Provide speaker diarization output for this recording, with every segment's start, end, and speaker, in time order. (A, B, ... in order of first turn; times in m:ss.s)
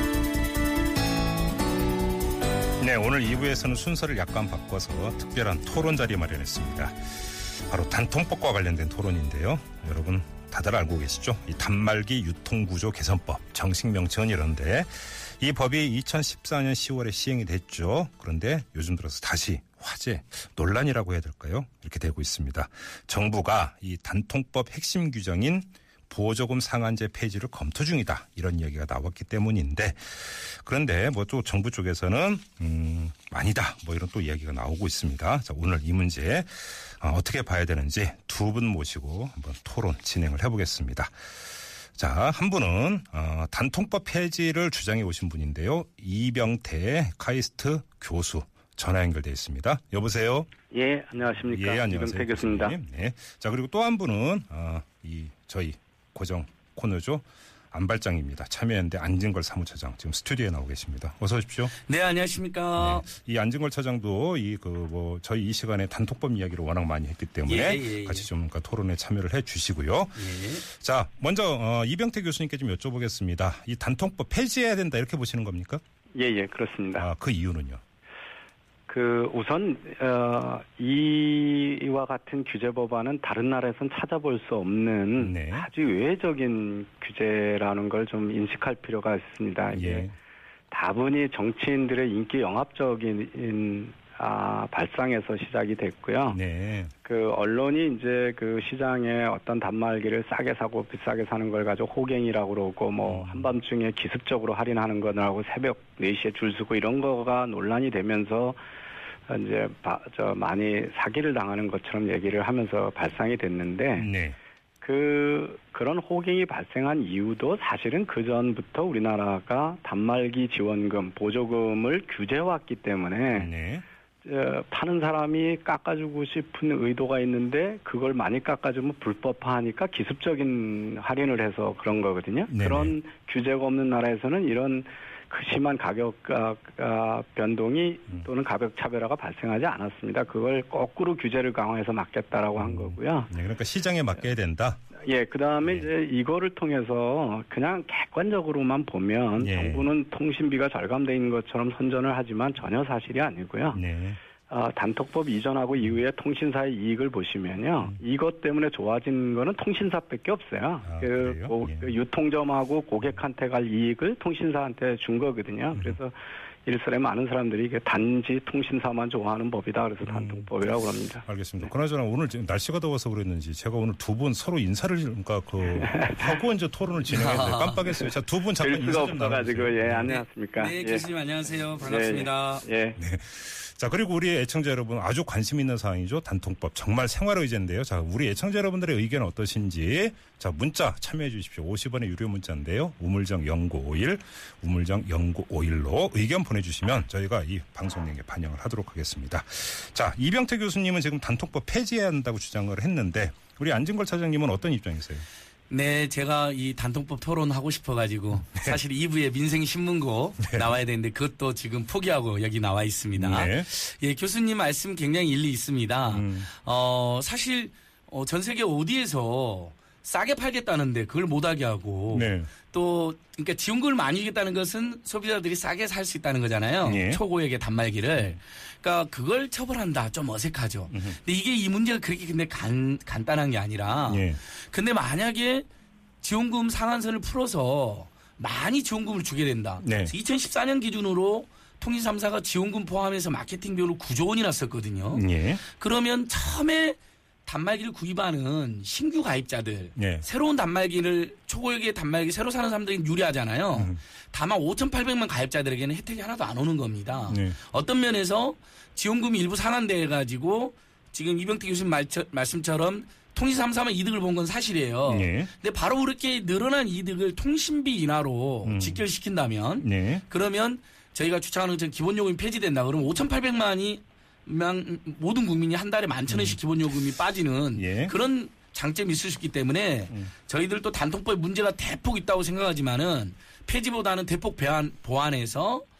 0:02.8-0:41.1 A
0:41.9-0:50.5 A
0:50.7-0:52.8 B
0:51.4-1:01.7 A
1:01.8-1:03.0 C
1:02.8-1:15.8 A
1:07.5-1:08.3 C
1:10.2-1:10.6 C
1:16.1-1:17.1 B
1:17.0-1:17.8 A
1:18.9-1:30.1 B
1:25.2-1:25.7 A
1:29.7-1:30.1 A
1:30.7-1:36.4 B
1:36.3-1:36.9 A
1:37.0-1:48.6 B
1:43.0-1:43.5 A
1:49.3-1:54.1 B
1:54.0-1:54.4 A
1:54.8-2:03.5 B
2:03.3-2:03.8 A
2:04.2-2:23.3 B
2:12.5-2:12.9 A
2:22.6-2:24.8 A
2:25.0-2:33.8 B
2:29.4-2:29.9 A
2:33.7-2:34.2 A
2:34.5-2:46.1 B
2:40.8-2:41.9 A
2:46.6-2:51.2 B
2:50.0-2:50.5 A
2:51.3-3:00.1 A
2:55.6-2:56.4 B
2:57.1-2:58.0 C
2:58.6-3:01.0 B
3:00.0-3:02.6 C
3:01.8-3:03.0 B
3:03.0-3:25.2 A
3:25.7-3:55.6 C
3:33.2-3:33.7 A
3:36.1-3:36.5 A
3:42.1-3:42.5 A
3:46.8-3:47.2 A
3:50.9-3:51.2 A
3:54.1-3:54.4 A
3:56.2-4:45.8 C
3:59.8-4:00.1 A
4:05.1-4:05.6 A
4:10.0-4:10.2 A
4:17.3-4:17.5 A
4:25.1-4:25.5 A
4:28.6-4:29.0 A
4:29.8-4:30.2 A
4:36.3-4:36.6 A
4:37.8-4:38.1 A